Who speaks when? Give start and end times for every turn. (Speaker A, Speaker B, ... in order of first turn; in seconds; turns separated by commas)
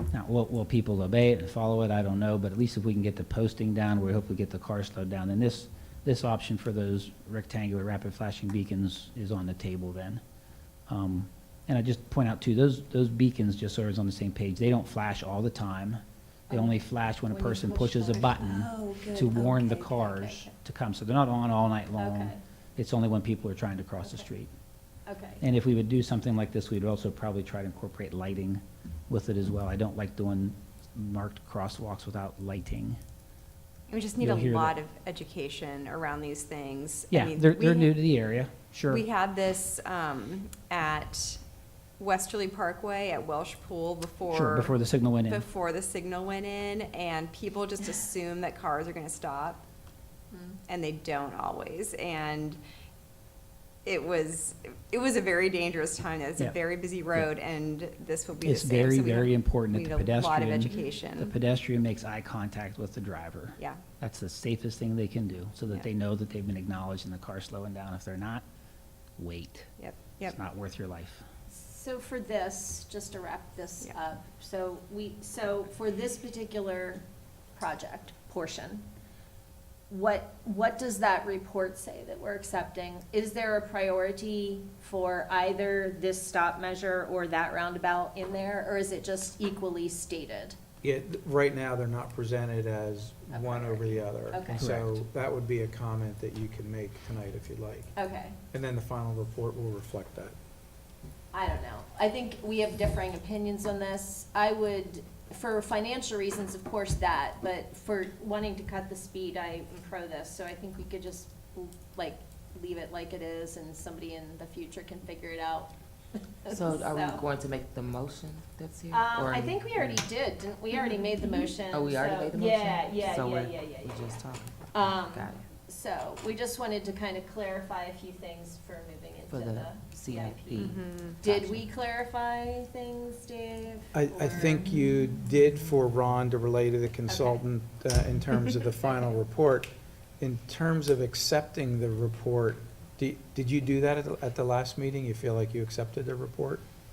Speaker A: 0.1-10.2, Speaker A: 10.9-24.5, Speaker B: 16.5-20.5, Speaker B: 22.0-22.4, Speaker B: 25.1-25.4, Speaker A: 25.4-33.0, Speaker C: 33.9-38.0, Speaker A: 34.2-34.8, Speaker A: 37.1-39.0, Speaker C: 38.9-41.4, Speaker C: 42.0-49.6, Speaker A: 44.3-45.4, Speaker B: 50.3-50.6, Speaker C: 50.7-52.6, Speaker C: 53.9-61.4, Speaker A: 58.4-68.4, Speaker A: 69.2-69.7, Speaker C: 69.8-70.4, Speaker A: 70.2-71.2, Speaker B: 71.5-77.0, Speaker B: 77.5-78.8, Speaker B: 79.9-90.6, Speaker D: 90.8-97.9, Speaker B: 93.3-94.7, Speaker A: 94.6-95.0, Speaker B: 98.0-98.4, Speaker D: 98.5-100.3, Speaker B: 101.3-117.2, Speaker E: 116.5-120.0, Speaker B: 118.9-134.7, Speaker E: 121.6-125.5, Speaker E: 129.3-131.7, Speaker C: 130.6-131.2, Speaker D: 133.9-146.6, Speaker B: 137.1-137.4